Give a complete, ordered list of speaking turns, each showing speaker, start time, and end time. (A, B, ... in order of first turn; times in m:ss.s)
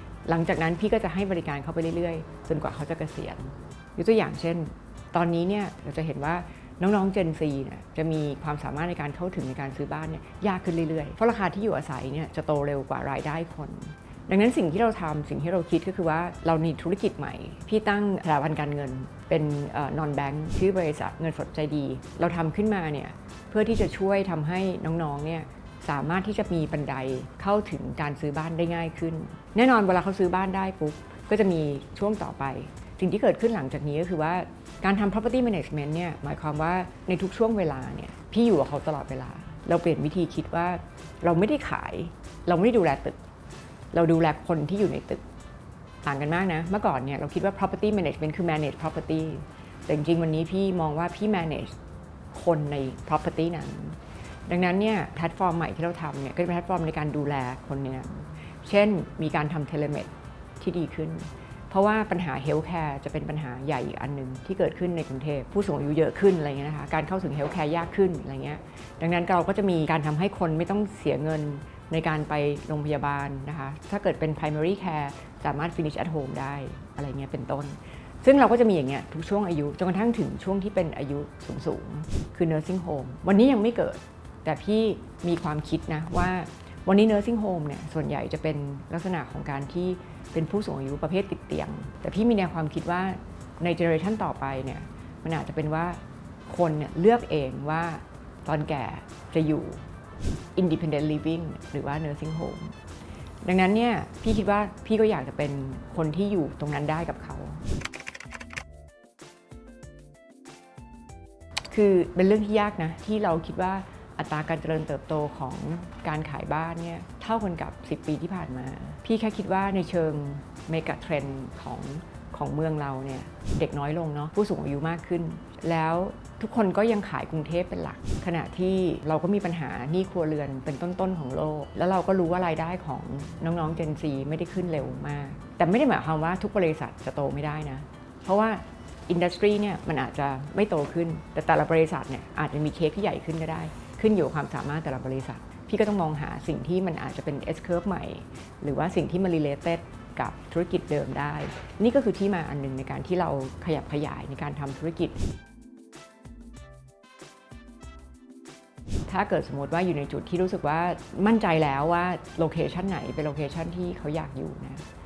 0:00.2-0:43.2 A
0:43.9-0:45.2 A
0:46.0-0:51.7 A
0:52.3-1:39.8 A
1:40.6-1:42.8 A
1:43.4-1:47.6 A
1:51.7-2:35.2 A
2:39.1-2:44.8 A